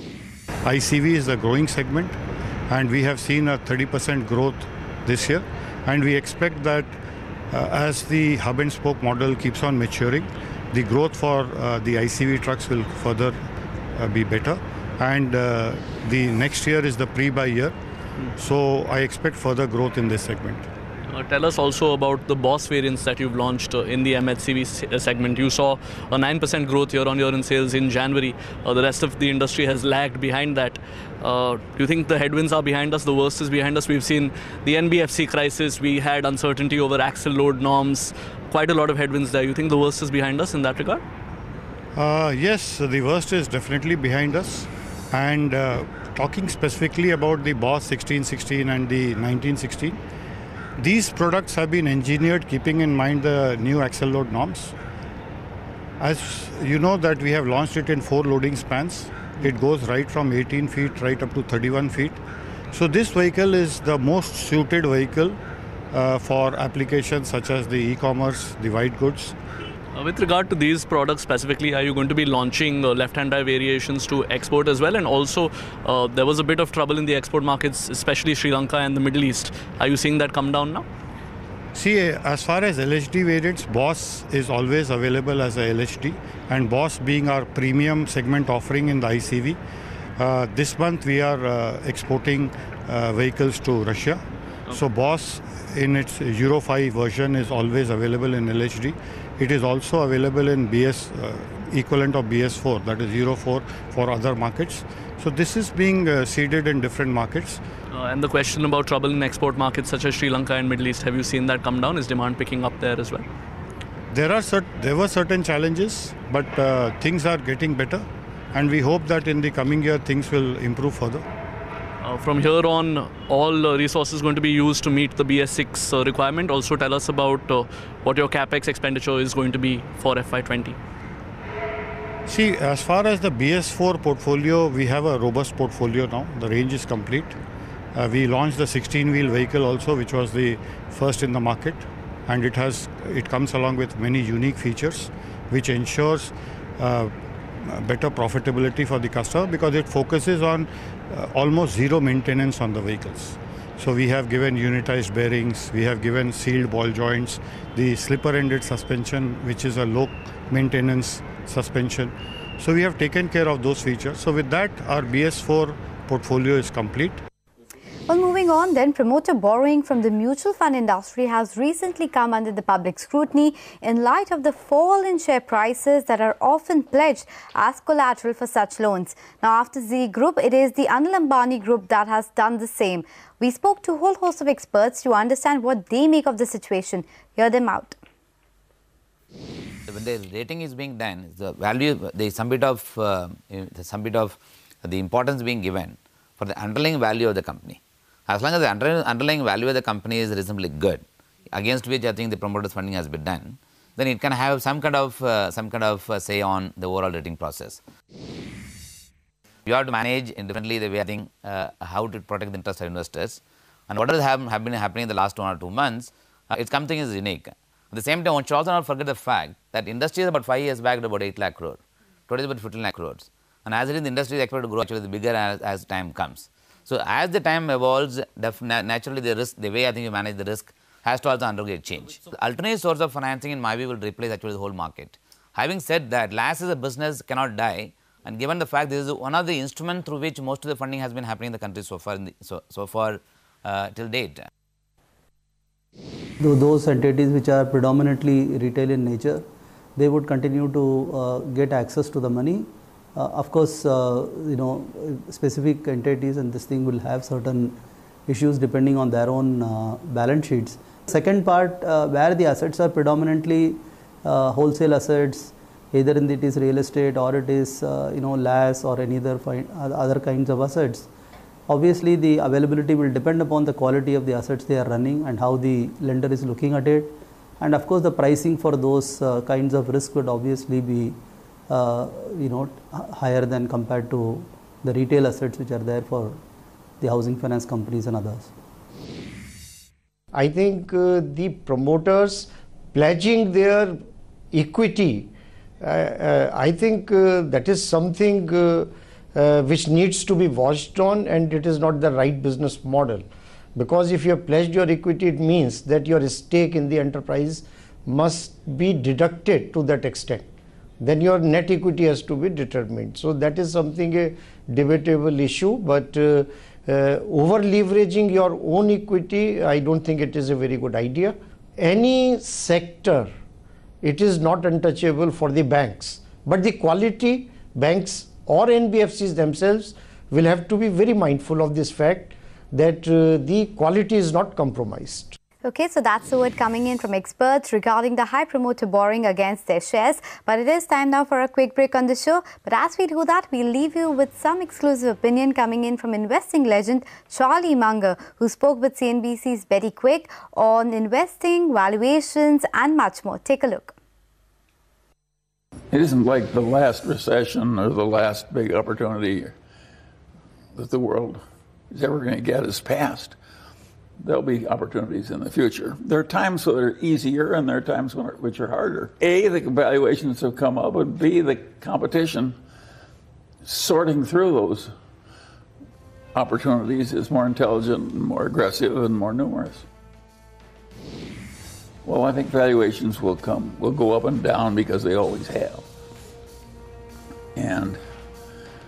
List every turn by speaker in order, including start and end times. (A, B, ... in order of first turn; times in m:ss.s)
0:00.6-0:02.2 A
0:02.7-0:06.9 A
0:07.5-0:13.4 A
0:13.9-0:17.7 A
0:18.4-0:20.6 A
0:21.1-0:41.0 B
0:42.0-0:50.0 A
0:50.8-0:54.7 A
0:56.0-1:02.2 A
1:02.7-1:05.4 A
1:05.9-1:09.3 A
1:10.0-1:20.8 B
1:21.7-1:29.6 A
1:30.2-1:47.6 A
1:47.9-1:53.2 B
1:54.1-2:01.2 A
2:02.0-2:10.8 B
2:12.3-2:17.4 A
2:17.9-2:47.2 A
2:48.1-3:08.0 C
3:09.9-3:27.8 D
3:29.6-4:04.4 D
4:06.4-4:09.4 E
4:10.0-4:31.1 E
4:31.7-4:41.2 E
4:41.7-4:46.4 E
4:47.0-4:48.5 E
4:50.3-4:54.0 F
4:54.5-5:10.5 F
5:11.0-5:23.3 F
5:24.0-5:35.4 F
5:35.6-5:53.9 C
5:55.9-5:59.5 G
6:00.8-6:01.4 G
6:01.9-6:03.3 G
6:04.2-6:12.5 G
6:13.6-6:14.9 G
6:16.4-6:19.8 G
6:22.0-6:25.8 G
6:27.6-6:28.0 G